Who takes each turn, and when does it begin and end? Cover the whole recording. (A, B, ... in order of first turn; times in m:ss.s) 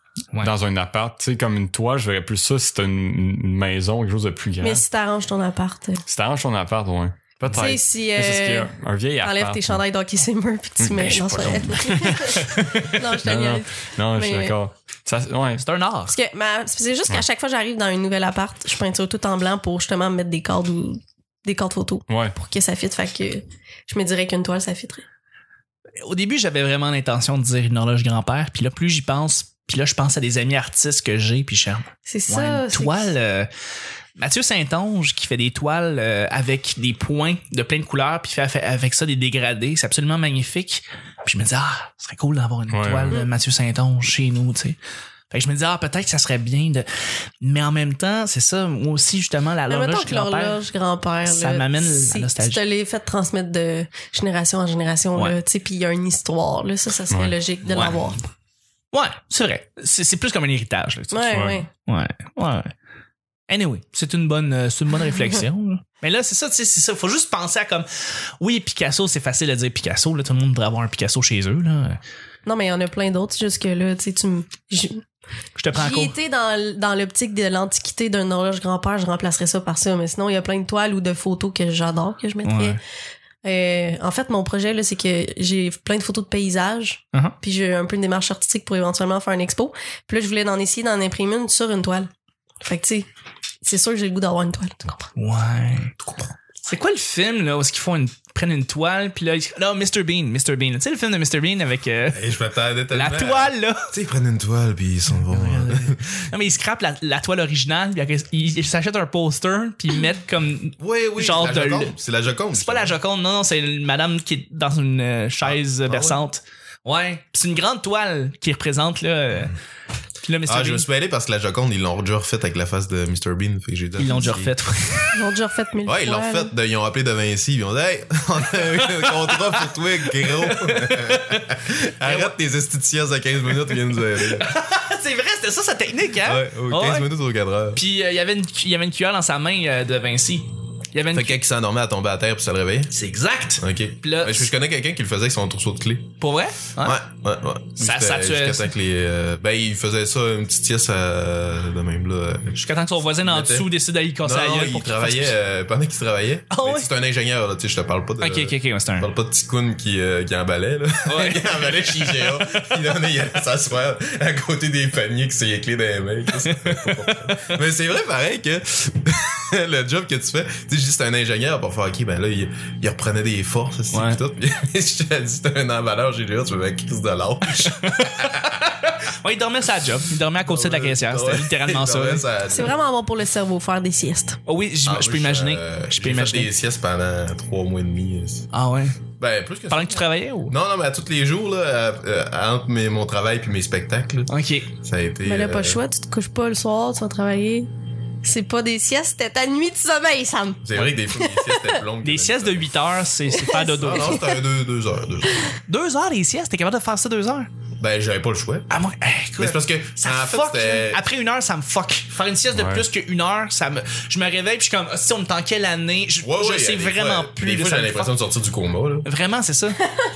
0:00.4-0:04.8 A
0:04.6-0:06.0 B
0:06.1-0:09.8 A
0:07.5-0:14.5 B
0:10.8-0:15.6 A
0:12.6-0:12.8 C
0:15.6-0:16.1 C
0:16.1-0:25.0 B
0:22.1-0:22.3 A
0:26.0-0:33.5 C
0:32.1-0:33.1 B
0:34.2-0:44.8 C
0:42.7-0:43.2 A
0:45.3-0:46.9 C
0:47.4-0:50.6 C
0:49.7-0:58.2 B
0:51.3-0:52.6 C
0:57.1-0:57.4 A
0:57.7-0:58.1 C
0:58.9-1:01.3 C
1:01.1-1:01.7 B
1:01.3-1:01.6 A
1:01.8-1:02.7 C
1:03.5-1:07.9 C
1:08.4-1:12.0 C
1:12.4-1:15.0 B
1:15.6-1:16.1 C
1:15.7-1:22.8 B
1:22.4-1:22.8 C
1:23.4-1:32.1 B
1:32.6-1:33.0 B
1:33.6-1:35.1 B
1:35.1-1:36.0 C
1:36.6-1:42.2 C
1:42.1-1:46.0 D
1:42.9-1:43.9 C
1:45.3-1:51.9 C
1:50.8-1:52.9 D
1:52.5-1:59.6 C
1:55.4-1:56.2 D
2:00.2-2:00.8 C
2:00.4-2:04.6 D
2:04.0-2:05.2 C
2:05.1-2:06.5 B
2:05.8-2:14.5 D
2:08.8-2:11.4 C
2:12.0-2:12.3 C
2:14.0-2:17.1 C
2:16.2-2:17.8 D
2:17.7-2:21.4 C
2:21.1-2:22.9 D
2:22.9-2:24.5 C
2:23.6-2:26.1 D
2:26.2-2:27.0 C
2:26.8-2:32.6 D
2:27.8-2:28.7 C
2:32.6-2:35.3 C
2:33.2-2:33.7 D
2:34.2-2:58.3 D
2:36.5-2:36.9 C
2:38.2-2:39.1 C
2:41.0-2:42.7 C
2:46.4-2:46.9 C
2:53.9-2:54.2 C
2:57.6-3:02.2 C
3:00.4-3:02.8 D
3:02.5-3:04.4 B
3:04.4-3:06.5 C
3:04.8-3:08.4 D
3:08.5-3:09.0 C
3:09.2-3:15.8 D
3:09.7-3:10.5 C
3:14.3-3:14.7 C
3:15.2-3:17.7 B
3:18.2-3:21.8 B
3:20.6-3:22.8 D
3:22.0-3:24.2 C
3:23.3-3:24.4 B
3:23.8-3:25.4 D
3:25.7-3:27.5 C
3:27.8-3:28.7 D
3:28.7-3:38.1 C
3:29.4-3:31.0 D
3:32.5-3:32.8 A
3:36.2-3:39.0 D
3:39.0-3:39.8 C